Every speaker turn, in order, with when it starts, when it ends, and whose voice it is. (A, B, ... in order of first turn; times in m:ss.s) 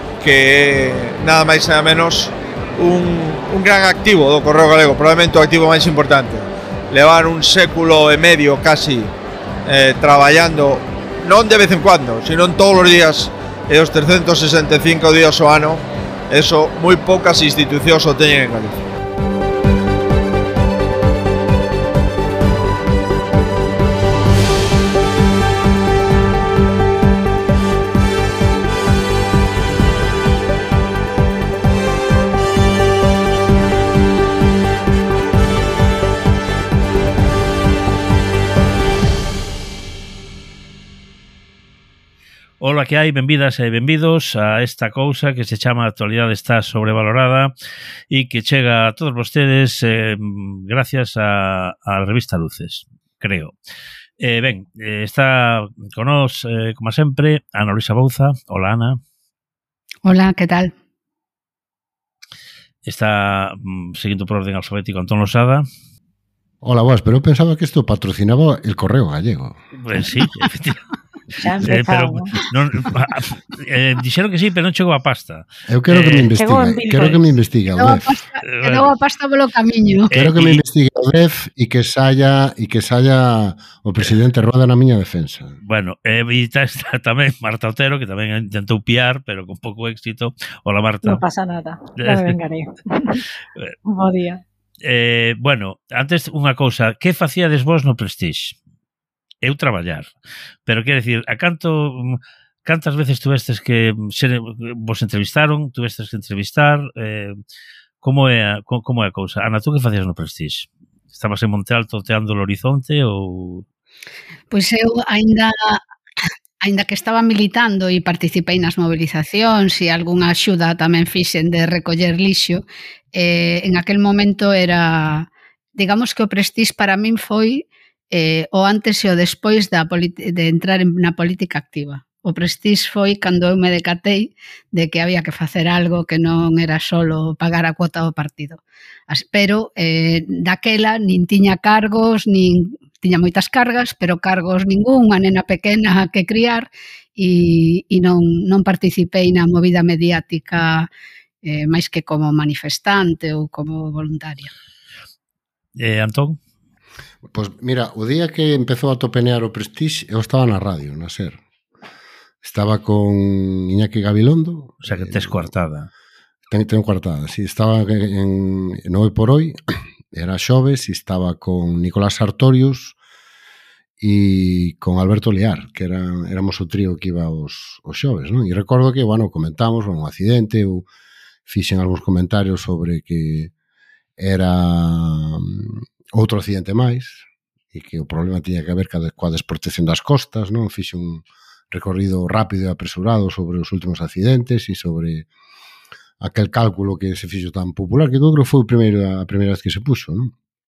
0:00.2-0:09.1 A
0:09.7-0:18.8 A
0:42.6-0:47.5 B
0:48.1-0:53.5 B
0:54.2-0:59.0 B
1:00.0-1:00.7 C
1:02.8-1:05.6 B
1:06.6-1:09.6 D
1:09.8-1:10.8 B
1:11.4-1:12.4 E
1:11.6-1:16.3 B
1:15.7-1:18.2 D
1:16.4-1:17.2 E
1:17.8-1:20.1 C
1:18.5-1:18.9 B
1:20.1-1:20.6 B
1:20.1-1:25.6 D
1:25.6-1:31.2 B
1:31.0-1:33.2 E
1:32.0-1:32.4 B
1:33.9-1:34.4 E
1:34.8-1:38.6 B
1:39.4-1:40.1 B
1:40.7-1:47.4 B
1:48.0-1:53.6 B
1:54.5-1:55.8 C
1:56.6-2:30.9 C
2:31.4-2:34.5 C
2:35.8-2:36.4 B
2:37.3-2:41.4 D
2:42.4-2:45.5 D
2:44.8-2:45.9 B
2:46.5-2:49.6 D
2:50.1-2:53.0 D
2:54.0-3:00.9 D
3:01.5-3:03.5 D
3:04.2-3:15.3 D
3:16.2-3:20.3 D